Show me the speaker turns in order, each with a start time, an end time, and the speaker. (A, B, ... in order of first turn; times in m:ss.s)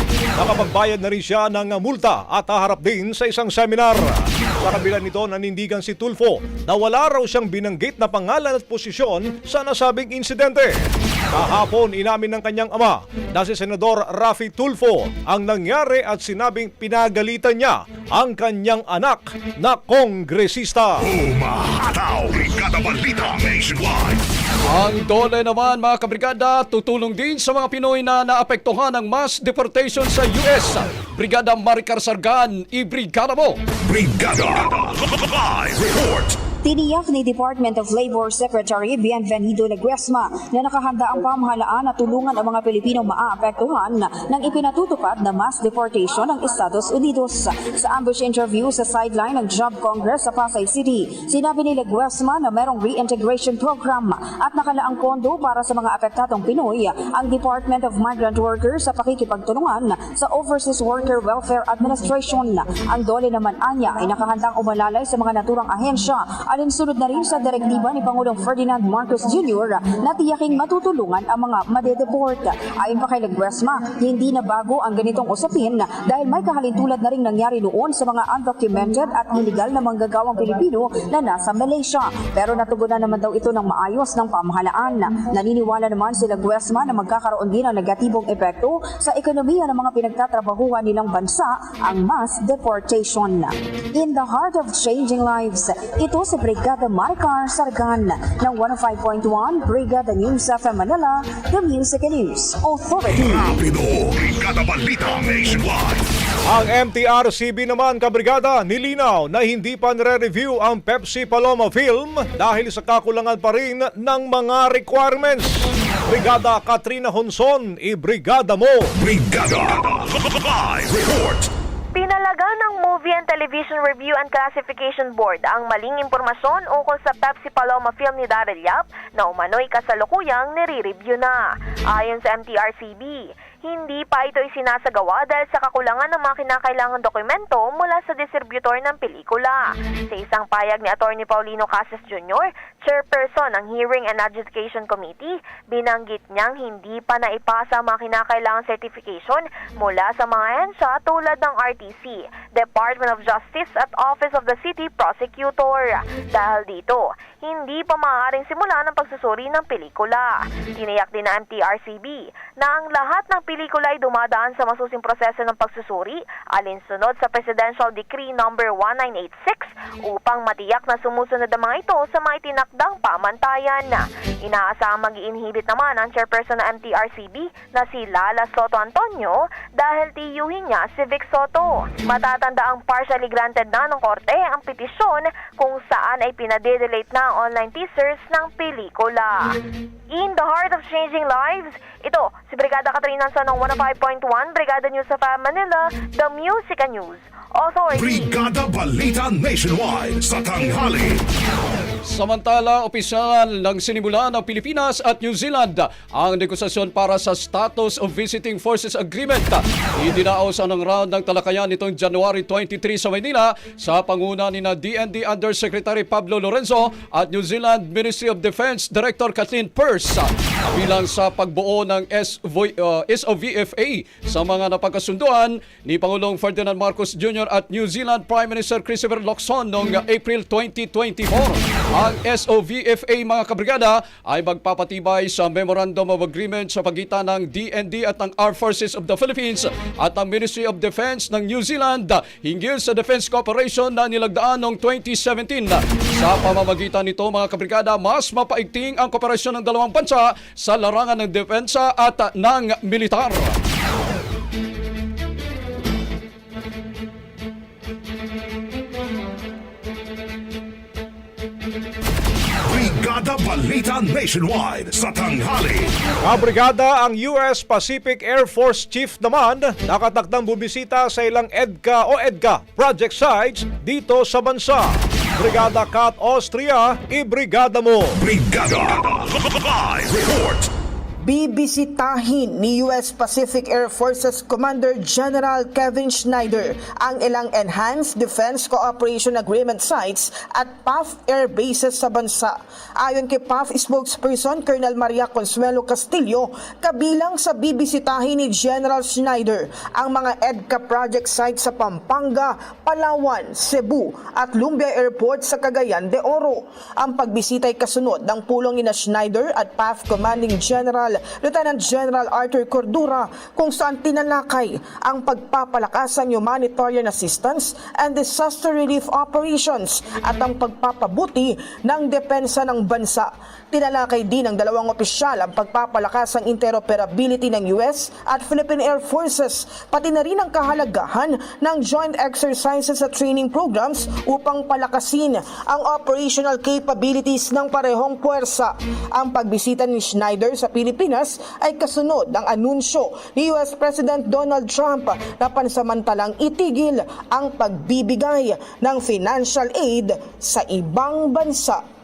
0:00.4-0:21.1 A
0:21.0-0:24.2 B
0:24.7-0:33.6 C
0:33.8-0:36.4 B
0:36.6-1:43.6 D
1:43.1-1:46.1 B
1:46.5-1:58.9 A
1:59.0-2:01.5 B
2:02.0-2:11.4 E
2:11.9-3:09.6 E
3:10.1-3:18.3 E
3:18.0-3:21.2 B
3:22.1-4:13.6 C
4:22.6-4:26.0 B
4:26.2-4:38.2 A
4:38.2-4:40.7 B
4:41.2-5:51.8 F